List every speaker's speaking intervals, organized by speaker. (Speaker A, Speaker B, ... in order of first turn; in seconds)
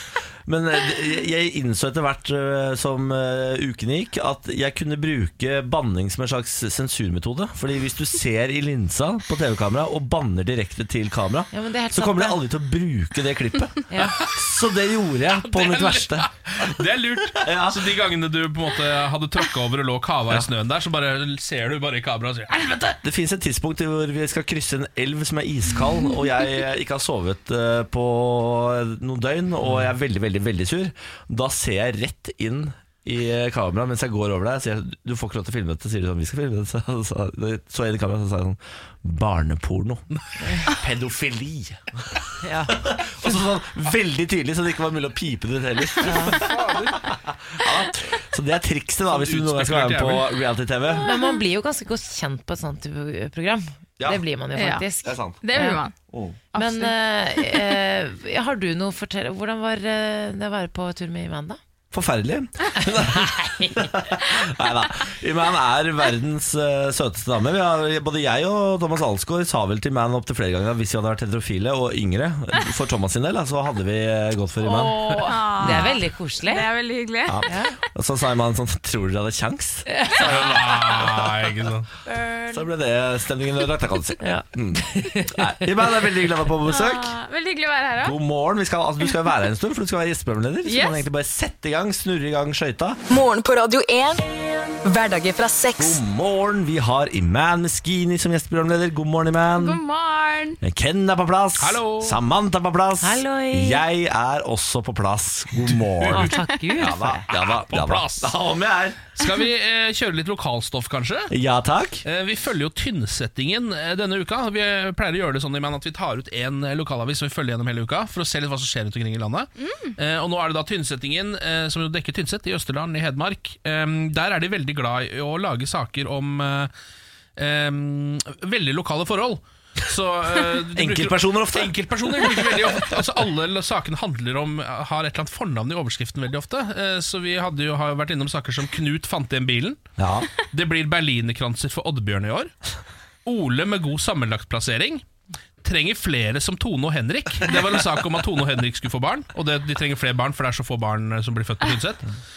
Speaker A: 0.5-16.3, 17.4-17.9, 23.0-40.1, 40.6-46.6, 47.1-51.0, 55.0-55.4, 56.1-56.4, 61.9-75.1, 75.6-75.9, 77.3-81.5, 82.5-87.2, 88.0-93.0, 95.8-99.8, 100.6-109.1, 111.3-112.0, 130.8-132.8, 140.0-140.3
Speaker B: 11.5-12.4, 13.9-14.2, 42.4-42.8, 46.0-46.4, 51.0-55.8, 56.5-61.6, 74.6-76.7, 77.5-77.8, 79.9-80.2, 84.2-85.7, 103.0-103.8, 106.1-107.3
Speaker C: 15.4-22.9, 46.5-46.9, 49.1-50.3, 80.2-81.9, 101.6-102.2, 106.0-106.3, 107.3-108.3, 109.2-111.3, 112.0-126.7, 127.4-139.8, 140.5-142.5, 143.2-145.0, 145.6-152.0
Speaker D: 51.1-51.4, 54.5-56.0, 56.5-57.6, 75.2-77.5, 82.1-82.5, 86.7-88.2, 90.7-91.0, 99.6-100.6, 119.6-120.0
Speaker E: 93.1-94.2, 94.8-96.0